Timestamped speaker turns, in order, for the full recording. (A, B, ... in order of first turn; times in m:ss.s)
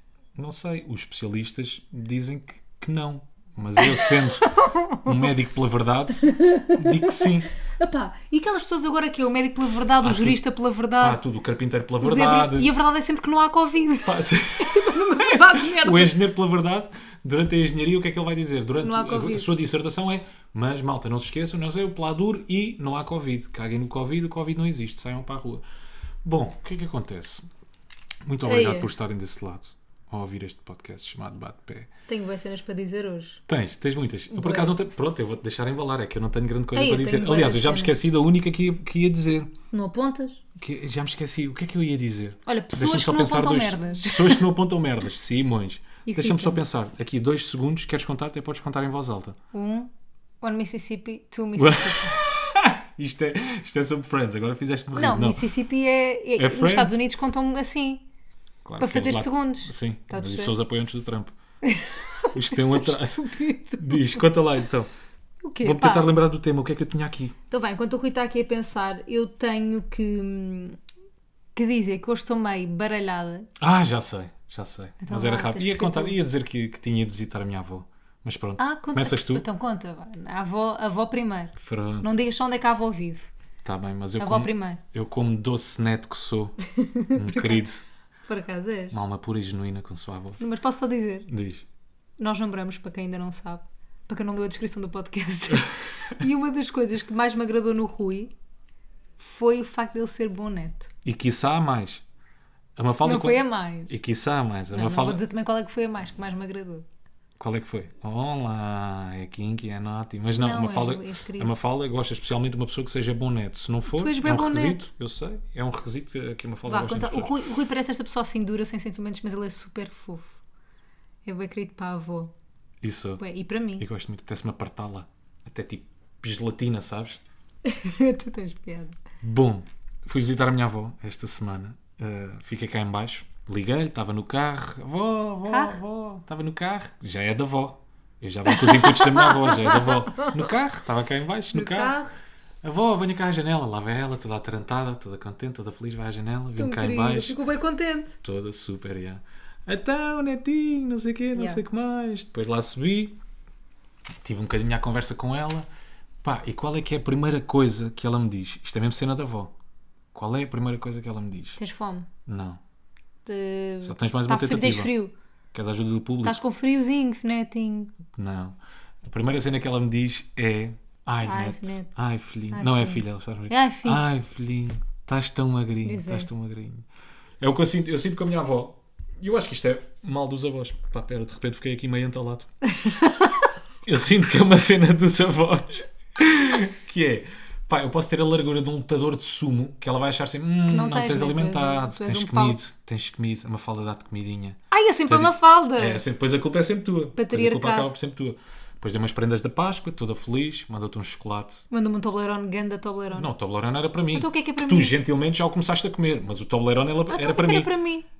0:00.4-0:04.5 A
0:03.8-0:05.3 B
0:05.0-0:07.5 A
0:06.2-0:11.2 B
0:10.0-0:10.4 A
0:11.0-0:12.7 A
0:12.0-0:16.2 B
0:14.0-0:25.6 A
0:18.8-0:19.5 B
0:26.2-0:27.4 A
0:28.2-0:31.9 A
0:28.4-0:28.9 B
0:32.1-0:33.4 B
0:33.5-0:39.5 A
0:34.3-0:34.7 B
0:36.7-0:37.9 B
0:39.7-0:40.4 B
0:40.6-0:49.4 A
0:42.4-0:44.4 B
0:46.0-0:46.6 B
0:49.5-0:49.9 B
0:50.4-0:52.2 B
0:51.6-0:55.4 A
0:54.9-0:58.0 B
0:56.4-0:57.0 A
0:58.6-1:01.3 A
0:58.8-1:00.5 B
1:01.6-1:04.3 B
1:02.3-1:03.3 A
1:03.8-1:04.9 A
1:05.4-1:06.1 B
1:05.6-1:07.3 A
1:07.5-1:10.8 B
1:11.6-1:13.5 B
1:13.6-1:19.4 A
1:15.0-1:16.2 B
1:18.6-1:23.3 B
1:21.6-1:22.1 A
1:23.6-1:26.6 A
1:24.2-1:24.8 B
1:26.6-1:27.6 B
1:27.1-1:27.8 A
1:28.3-1:29.0 B
1:28.9-1:30.4 A
1:30.4-1:31.3 B
1:31.3-1:31.6 A
1:32.2-1:38.3 B
1:39.2-1:40.9 B
1:41.0-1:42.0 A
1:42.8-1:45.2 A
1:43.0-1:44.0 B
1:44.7-1:46.8 B
1:47.4-1:57.3 A
1:50.4-1:51.5 B
1:53.9-1:54.8 B
1:56.7-2:00.4 B
2:01.2-2:02.3 B
2:02.8-2:03.2 A
2:03.2-2:03.8 B
2:03.8-2:07.2 A
2:07.6-2:08.9 B
2:09.2-2:22.0 A
2:15.4-2:15.8 B
2:18.5-2:20.4 B
2:21.5-2:22.1 B
2:22.6-2:27.4 A
2:26.6-2:28.2 B
2:28.2-2:33.2 A
2:31.3-2:31.6 B
2:34.2-2:35.7 A
2:36.2-2:39.5 A
2:40.1-2:41.6 A
2:41.6-2:42.1 B
2:42.2-2:42.6 A
2:43.2-2:45.1 B
2:43.8-2:44.9 A
2:45.5-2:46.4 A
2:46.2-2:47.9 B
2:48.1-2:56.8 A
2:51.2-2:51.9 B
2:52.5-2:54.0 B
2:55.8-2:56.3 B
2:57.4-3:02.5 A
3:02.7-3:03.4 B
3:03.8-3:21.7 A
3:10.7-3:12.6 B
3:14.7-3:16.0 B
3:17.2-3:17.9 B
3:21.7-3:23.3 B
3:23.1-3:27.7 A
3:24.1-3:25.0 B
3:27.1-3:28.0 B